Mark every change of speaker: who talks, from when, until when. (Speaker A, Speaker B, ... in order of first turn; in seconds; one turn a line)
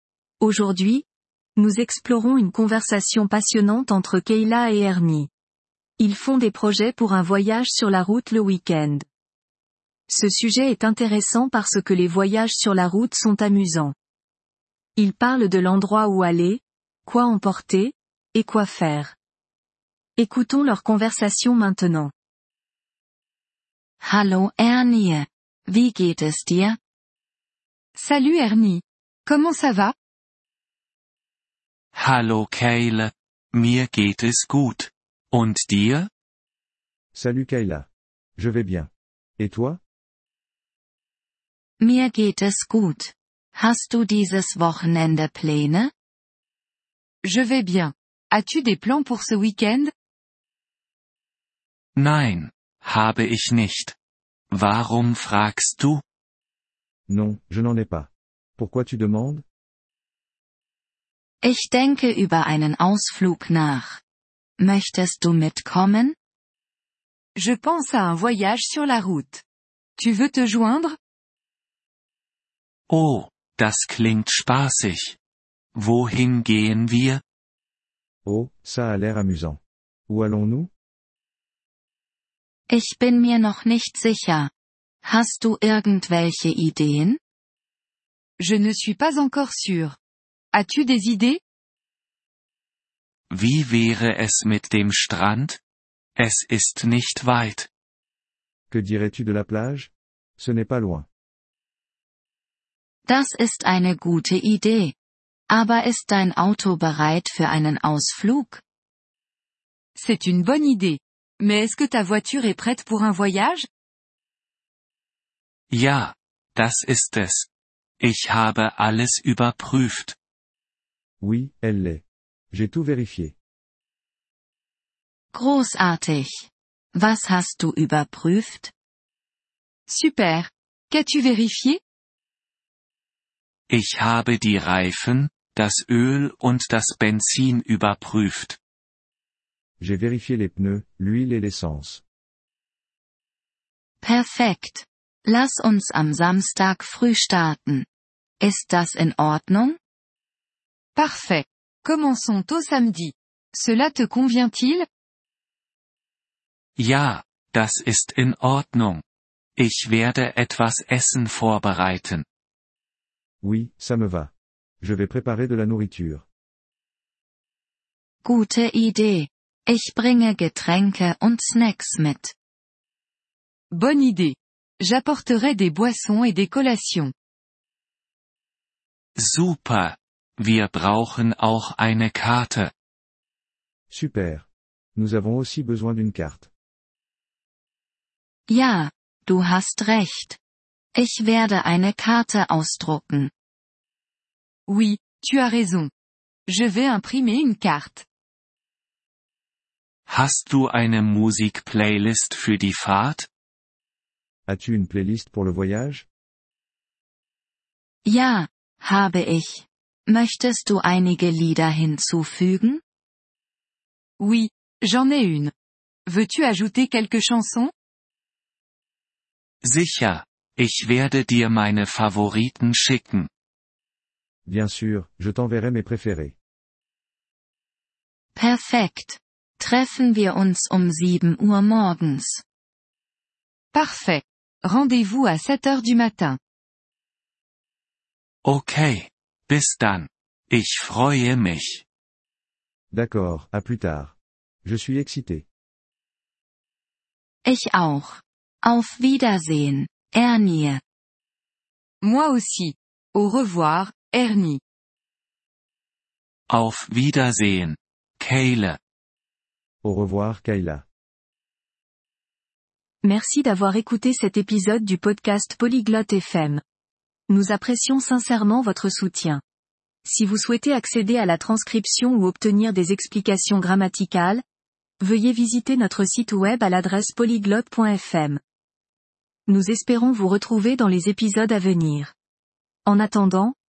Speaker A: 0.4-1.1
Speaker A: 1.6-5.3
Speaker A: 6.0-9.0
Speaker A: 10.1-13.9
Speaker A: 14.9-19.1
Speaker A: 20.2-22.1
Speaker B: 24.0-26.8
Speaker C: 27.9-29.9
Speaker D: 31.9-36.1
Speaker E: 37.1-39.8
Speaker B: 41.8-45.9
Speaker C: 47.2-49.9
Speaker D: 52.0-54.0
Speaker D: 54.5-56.0
Speaker E: 57.1-59.4
Speaker B: 61.4-64.0
Speaker B: 64.6-66.2
Speaker C: 67.3-69.4
Speaker C: 70.0-71.0
Speaker D: 72.9-75.2
Speaker D: 75.7-77.2
Speaker E: 78.2-80.7
Speaker B: 82.7-84.5
Speaker B: 85.0-87.2
Speaker C: 88.4-90.0
Speaker C: 90.5-91.4
Speaker D: 93.3-95.6
Speaker D: 96.2-97.7
Speaker E: 98.7-101.1
Speaker B: 103.0-104.9
Speaker B: 105.5-108.6
Speaker C: 110.0-113.7
Speaker D: 115.7-117.5
Speaker D: 118.0-120.2
Speaker E: 121.2-123.3
Speaker B: 125.3-128.7
Speaker C: 129.9-131.8
Speaker D: 133.7-138.6
Speaker E: 139.8-142.0
Speaker B: 144.0-147.8
Speaker B: 148.4-149.8
Speaker C: 150.9-154.8
Speaker D: 156.8-159.0
Speaker D: 159.6-162.2
Speaker E: 163.4-166.2
Speaker B: 168.2-172.3
Speaker C: 173.7-177.1
Speaker D: 179.2-182.7
Speaker E: 183.9-186.5
Speaker B: 188.5-190.4
Speaker B: 190.9-193.3
Speaker C: 194.7-195.9
Speaker C: 196.5-198.1
Speaker D: 200.1-203.3
Speaker E: 204.5-206.1
Speaker B: 208.0-212.8
Speaker C: 214.2-215.5
Speaker C: 216.1-217.7
Speaker D: 219.6-223.3
Speaker E: 224.4-226.3
Speaker B: 228.3-232.4
Speaker C: 233.7-236.4
Speaker D: 238.4-241.8
Speaker E: 242.9-245.4
Speaker B: 247.4-250.8
Speaker C: 252.0-254.6
Speaker D: 256.5-258.8
Speaker E: 259.8-260.8
Speaker A: 263.0-266.6
Speaker A: 267.3-269.4
Speaker A: 270.0-274.4
Speaker A: 275.0-278.4
Speaker A: 279.5-282.1
Speaker A: 282.9-283.5